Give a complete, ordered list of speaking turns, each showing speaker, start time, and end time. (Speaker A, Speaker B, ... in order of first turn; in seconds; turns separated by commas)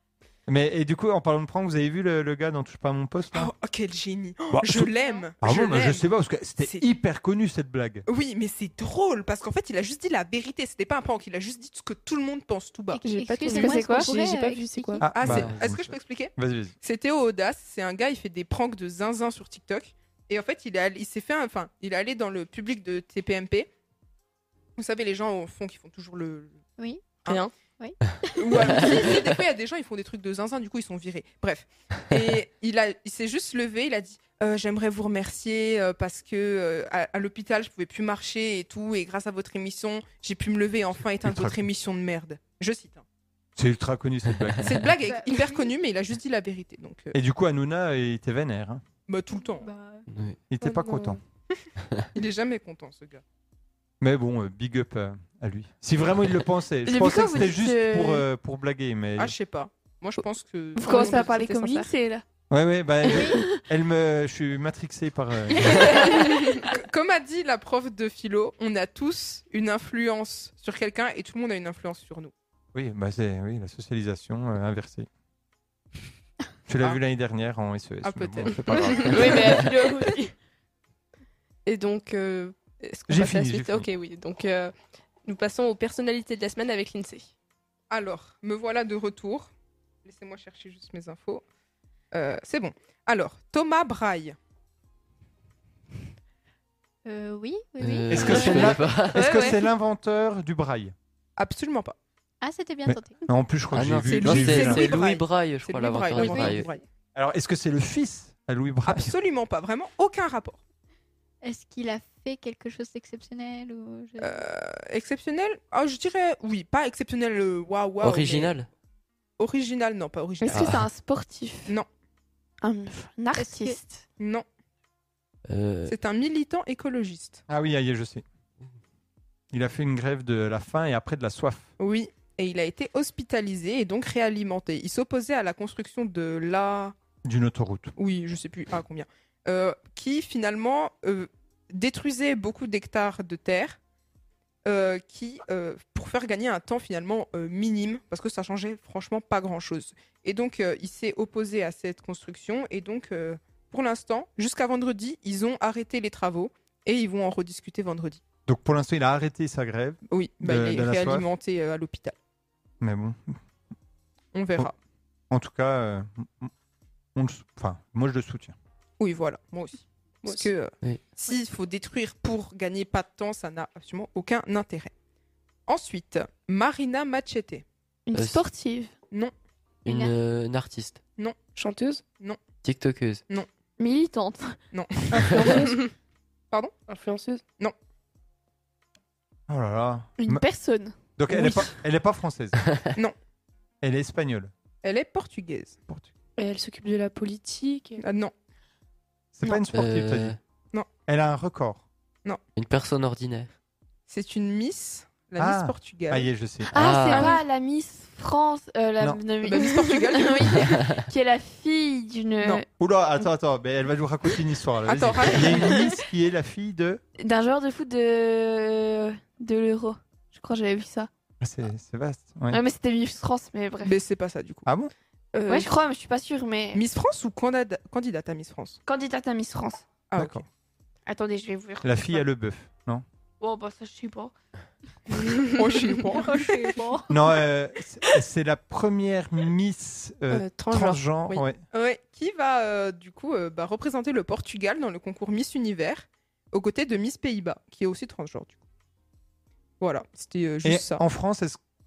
Speaker A: 0.5-3.5, Speaker B: 3.3-6.0, Speaker A: 4.5-8.0, Speaker B: 6.6-6.8, Speaker B: 8.1-13.0, Speaker C: 12.9-15.0, Speaker D: 13.0-15.0, Speaker E: 13.5-14.2, Speaker A: 15.0-16.8, Speaker B: 15.0-23.7, Speaker F: 15.2-15.7, Speaker B: 24.8-26.6, Speaker C: 26.8-27.2, Speaker G: 27.3-27.5, Speaker C: 27.8-29.1, Speaker B: 28.4-43.0, Speaker A: 41.2-41.6, Speaker A: 43.5-44.9, Speaker B: 44.6-47.1, Speaker C: 45.0-45.7, Speaker A: 47.1-48.8, Speaker B: 49.1-49.7, Speaker C: 49.3-50.1, Speaker F: 50.1-50.4, Speaker A: 50.5-51.2, Speaker D: 50.6-51.2, Speaker B: 52.1-53.2, Speaker A: 54.0-59.3, Speaker E: 56.8-58.2, Speaker B: 59.2-61.9, Speaker E: 60.7-62.2, Speaker G: 61.0-61.3, Speaker A: 62.5-66.1, Speaker E: 63.1-63.6, Speaker B: 65.8-72.3, Speaker A: 72.7-75.1, Speaker A: 76.7-79.6, Speaker B: 78.1-78.9, Speaker G: 79.0-79.9, Speaker E: 79.1-80.3, Speaker G: 81.7-84.7, Speaker A: 83.1-83.9, Speaker G: 85.2-87.3, Speaker B: 87.9-89.5, Speaker B: 90.0-91.4, Speaker B: 92.1-94.3, Speaker C: 97.0-98.7, Speaker F: 97.8-99.5, Speaker A: 98.1-100.9, Speaker E: 98.5-99.6, Speaker B: 101.4-102.0, Speaker C: 102.4-103.2, Speaker A: 102.8-104.9, Speaker F: 103.7-106.7, Speaker B: 104.0-106.8, Speaker C: 106.2-106.7, Speaker A: 107.1-109.1, Speaker B: 108.8-110.6, Speaker C: 111.4-114.4, Speaker B: 114.2-118.6, Speaker F: 118.0-118.7, Speaker B: 119.4-120.8, Speaker E: 120.4-121.8, Speaker F: 120.5-120.8, Speaker E: 122.6-124.0, Speaker C: 123.3-123.8, Speaker B: 124.2-124.5, Speaker F: 125.5-125.9, Speaker B: 125.8-127.4, Speaker A: 127.5-128.2, Speaker A: 129.5-131.7, Speaker B: 131.8-136.9, Speaker A: 137.2-137.9, Speaker B: 138.0-143.8, Speaker B: 144.6-158.2, Speaker A: 158.5-161.3, Speaker B: 160.1-162.2, Speaker A: 162.8-163.4, Speaker B: 164.3-164.7, Speaker A: 165.3-166.5, Speaker A: 167.1-168.6, Speaker B: 169.0-174.9, Speaker B: 175.7-177.6, Speaker E: 178.1-178.9, Speaker F: 178.1-178.4, Speaker C: 179.8-180.1, Speaker F: 179.8-181.0, Speaker D: 181.6-182.0, Speaker F: 182.6-183.2, Speaker E: 183.8-184.6, Speaker B: 184.7-185.8, Speaker D: 185.2-185.8, Speaker D: 186.9-187.4, Speaker A: 189.5-190.4, Speaker E: 190.2-191.7, Speaker A: 191.2-192.6, Speaker A: 193.8-194.5, Speaker B: 194.8-195.8, Speaker D: 196.4-198.0, Speaker B: 198.0-198.3, Speaker A: 199.3-200.4, Speaker F: 199.7-200.4, Speaker A: 201.1-201.9, Speaker F: 202.6-203.5, Speaker B: 204.1-206.3, Speaker A: 205.4-206.7, Speaker E: 206.7-212.7, Speaker F: 206.7-207.4, Speaker B: 209.4-210.7, Speaker A: 212.8-217.0, Speaker B: 214.8-215.9, Speaker E: 217.2-221.1, Speaker A: 221.4-222.6, Speaker E: 222.5-223.9, Speaker B: 223.8-224.7, Speaker A: 224.7-224.9, Speaker G: 225.3-225.7, Speaker E: 225.5-226.8, Speaker B: 226.7-228.8, Speaker E: 228.8-229.9, Speaker B: 230.1-230.4, Speaker A: 230.2-230.4, Speaker E: 231.1-232.2, Speaker A: 231.8-233.0, Speaker E: 233.4-234.3, Speaker E: 235.2-235.6, Speaker B: 235.6-236.7, Speaker C: 236.2-237.1, Speaker A: 237.1-241.6, Speaker G: 240.3-241.4, Speaker B: 241.7-248.6, Speaker B: 249.8-251.0, Speaker A: 250.6-251.6